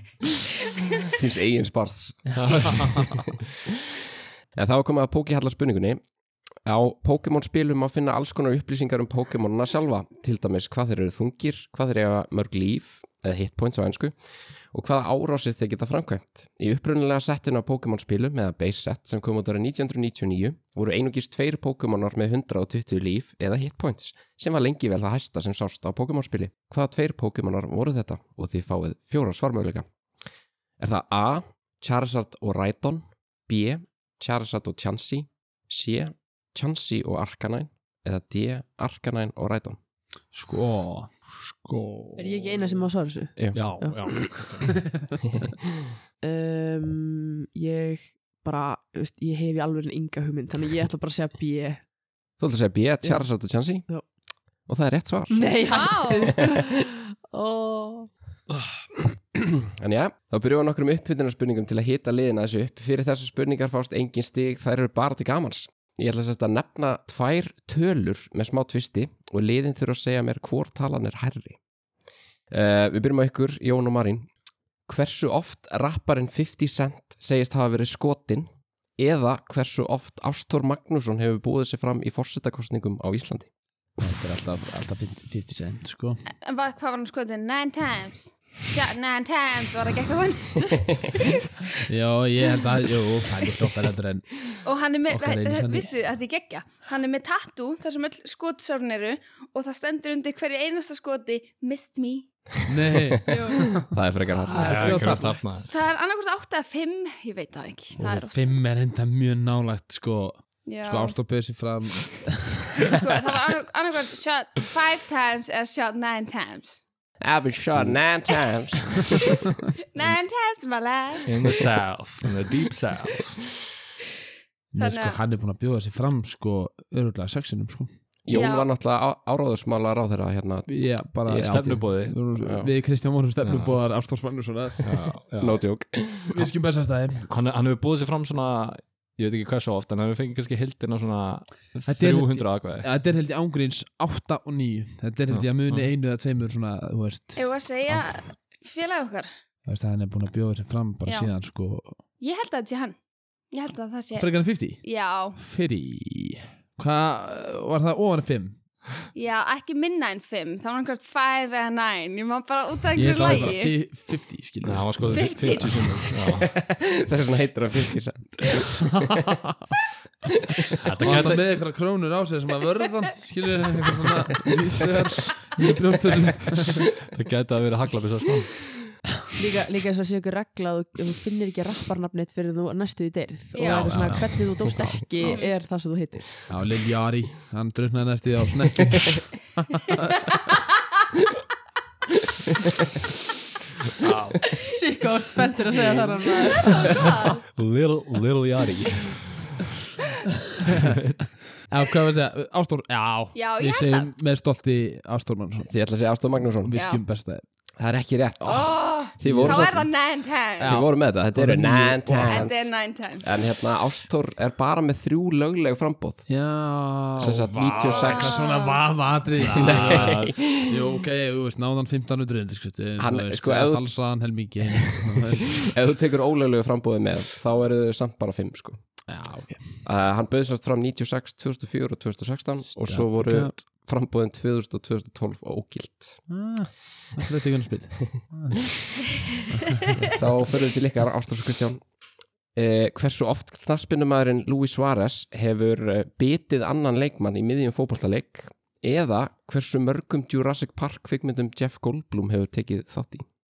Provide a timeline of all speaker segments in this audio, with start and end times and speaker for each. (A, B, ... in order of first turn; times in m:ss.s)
0:01.1-0:03.3 A
0:02.3-0:03.2 B
0:04.6-0:06.0 A
0:06.6-0:14.2 A
0:14.7-0:29.8 A
0:30.8-0:39.8 A
0:40.3-0:41.1 C
0:41.3-0:42.9 B
0:42.2-0:44.4 D
0:43.4-0:44.1 A
0:43.5-0:44.8 B
0:46.2-0:51.8 D
0:52.4-0:53.9 A
0:54.7-0:55.9 A
0:55.3-0:58.1 D
0:55.7-0:56.4 E
0:59.3-1:11.6 A
1:12.5-1:14.3 A
1:14.9-1:23.5 A
1:24.0-1:26.2 C
1:26.4-1:31.5 E
1:31.9-1:34.4 C
1:34.6-1:42.3 E
1:35.1-1:35.9 C
1:42.7-1:43.8 C
1:43.3-1:43.7 E
1:43.3-1:45.0 A
1:44.5-1:45.4 C
1:44.5-1:45.8 B
1:44.5-1:45.4 D
1:45.7-1:48.6 E
1:48.0-1:52.9 C
1:50.7-1:51.2 E
1:52.8-1:56.8 E
1:57.2-1:59.4 A
1:59.9-2:01.6 E
2:01.3-2:03.4 B
2:04.7-2:07.9 C
2:04.8-2:05.2 E
2:08.2-2:10.7 A
2:08.3-2:08.7 E
2:10.7-2:15.1 C
2:11.3-2:12.3 B
2:12.4-2:12.7 A
2:13.4-2:14.0 B
2:14.8-2:15.6 B
2:15.4-2:16.5 A
2:16.3-2:17.3 C
2:17.3-2:22.9 B
2:21.8-2:28.2 C
2:25.3-2:25.9 B
2:27.4-2:29.3 E
2:29.7-2:32.0 C
2:31.1-2:31.3 E
2:32.2-2:33.0 E
2:33.5-2:35.4 E
2:34.2-2:34.8 C
2:35.4-2:38.6 C
2:39.2-2:43.8 E
2:43.0-2:45.7 C
2:44.6-2:46.6 B
2:45.1-2:46.4 E
2:46.6-2:49.0 A
2:50.8-2:51.6 B
2:51.0-2:56.9 C
2:56.6-2:58.7 B
2:59.4-3:06.4 D
3:03.5-3:04.1 E
3:03.6-3:04.4 C
3:05.2-3:05.5 E
3:06.5-3:09.3 C
3:14.0-3:14.5 B
3:14.5-3:17.0 D
3:15.8-3:16.1 B
3:16.6-3:17.4 E
3:17.5-3:19.4 B
3:20.8-3:21.2 B
3:21.7-3:25.7 C
3:23.4-3:24.1 E
3:25.7-3:26.8 A
3:26.4-3:27.4 C
3:26.8-3:27.0 E
3:27.8-3:29.9 A
3:28.4-3:29.9 C
3:28.5-3:30.9 E
3:30.6-3:32.5 C
3:30.6-3:36.3 A
3:32.3-3:33.3 E
3:36.3-3:45.7 C
3:37.2-3:38.4 A
3:37.4-3:38.1 B
3:37.9-3:38.8 E
3:39.4-3:40.4 B
3:39.6-3:40.5 A
3:43.0-3:44.0 A
3:45.7-3:49.0 A
3:49.1-3:49.8 C
3:49.8-3:56.3 A
3:52.8-3:53.6 C
3:56.3-3:58.6 C
4:00.0-4:01.9 A
4:02.5-4:13.3 A